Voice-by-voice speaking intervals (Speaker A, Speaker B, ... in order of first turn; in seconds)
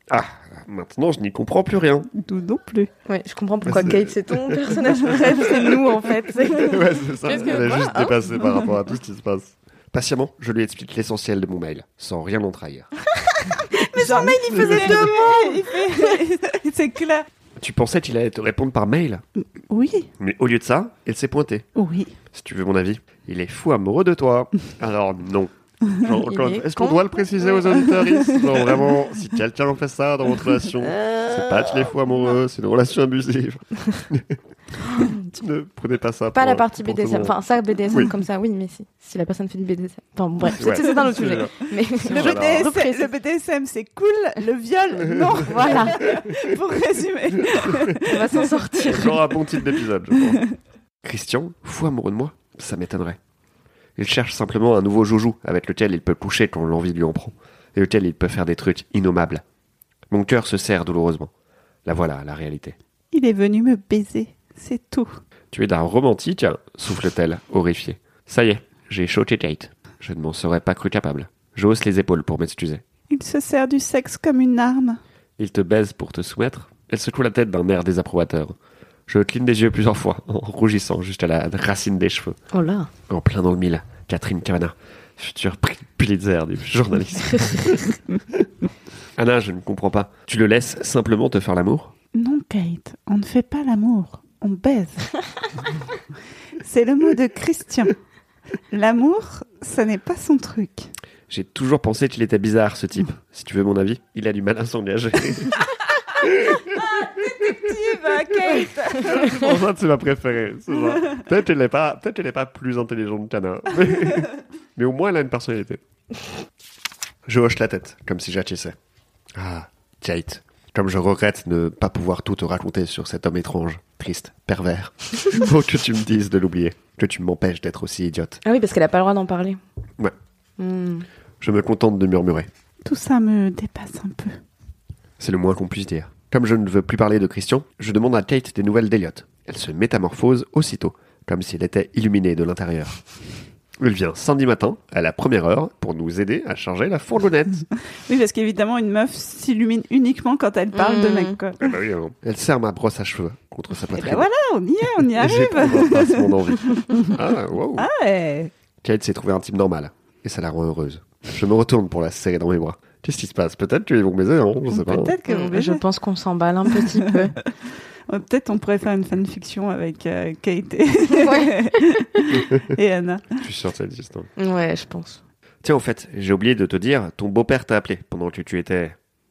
Speaker A: 0.1-2.1, 3.6-5.4, 6.5-12.9, 14.1-15.2, 17.6-19.2, 20.2-21.6, 22.3-34.4, 34.9-37.3, 40.5-42.6, 47.5-47.9, 48.8-50.5, 51.0-53.2, 54.0-59.4, 60.1-61.3, 61.8-62.8, 65.5-72.8, 75.4-78.5, 79.1-82.4, 83.1-88.5, 89.2-91.9, 101.3-107.7, 108.9-115.8, 117.2-118.7, 119.3-128.4, 131.4-132.5, 135.2-143.0, 143.8-147.6, 151.6-154.3, 155.2-157.9, 158.8-165.2, 173.3-174.3, 175.6-179.0
Speaker B: 2.1-2.9, 13.8-17.3, 19.7-20.1, 21.7-22.1, 42.1-48.6, 63.1-65.1, 73.1-75.0, 92.1-95.1, 96.6-98.0, 98.7-100.9, 107.3-109.5, 132.8-134.4, 148.1-151.6, 153.9-157.2, 157.8-158.5, 164.7-165.8, 168.1-173.3
Speaker C: 3.0-8.2, 13.1-16.1, 26.2-27.9, 30.8-31.9, 34.8-35.1, 36.3-43.1, 45.5-46.0, 48.0-49.3, 82.5-82.9, 128.4-129.6, 130.6-131.1, 150.7-151.4, 165.2-167.3, 171.1-172.3, 174.3-175.2